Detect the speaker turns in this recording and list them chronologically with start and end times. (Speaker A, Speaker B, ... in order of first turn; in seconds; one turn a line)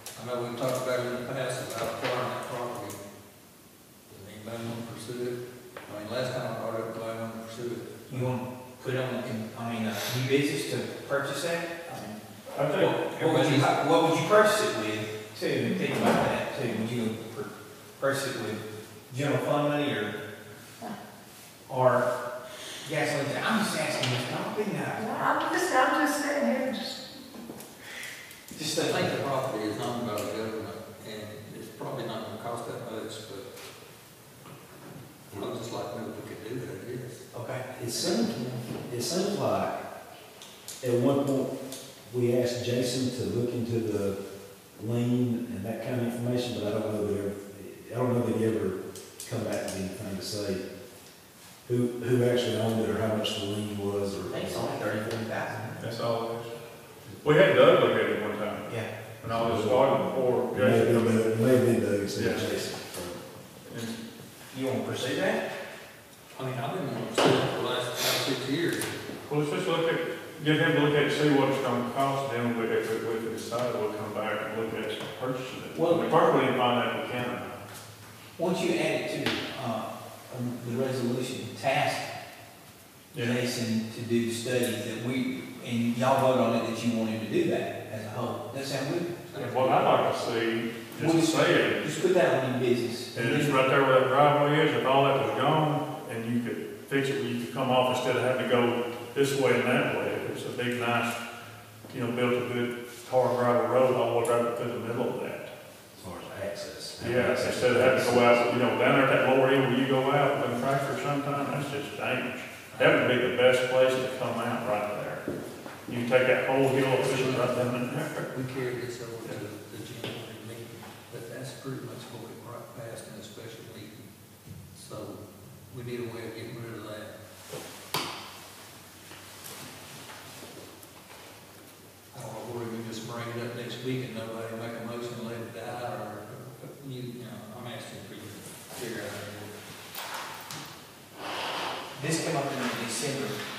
Speaker A: 0.1-3.0
Speaker A: 4.1-8.1
Speaker B: 8.1-12.0
Speaker C: 12.5-12.9
Speaker B: 12.7-20.1
Speaker A: 12.8-13.8
Speaker D: 15.6-16.1
Speaker B: 21.7-22.1
Speaker B: 22.8-25.0
Speaker D: 25.0-27.1
Speaker B: 28.6-29.2
Speaker A: 28.8-33.5
Speaker A: 35.3-37.2
Speaker B: 37.3-38.3
Speaker E: 37.8-39.9
Speaker A: 38.1-38.6
Speaker E: 40.8-44.2
Speaker E: 44.7-50.6
Speaker E: 51.6-54.8
Speaker B: 54.3-55.8
Speaker C: 55.8-56.5
Speaker C: 57.2-58.7
Speaker C: 59.2-61.2
Speaker E: 59.2-63.2
Speaker C: 62.1-62.4
Speaker C: 63.7-64.0
Speaker B: 64.5-65.4
Speaker A: 66.3-69.0
Speaker C: 69.2-77.5
Speaker B: 75.7-76.3
Speaker B: 78.4-82.1
Speaker B: 83.1-89.2
Speaker A: 89.3-90.2
Speaker C: 89.3-92.0
Speaker B: 91.0-93.6
Speaker C: 93.1-101.2
Speaker C: 101.9-105.5
Speaker E: 106.0-108.5
Speaker C: 107.0-115.2
Speaker A: 112.7-113.0
Speaker C: 115.9-118.1
Speaker A: 116.7-124.1
Speaker A: 124.7-127.2
Speaker A: 132.1-139.5
Speaker B: 141.9-143.4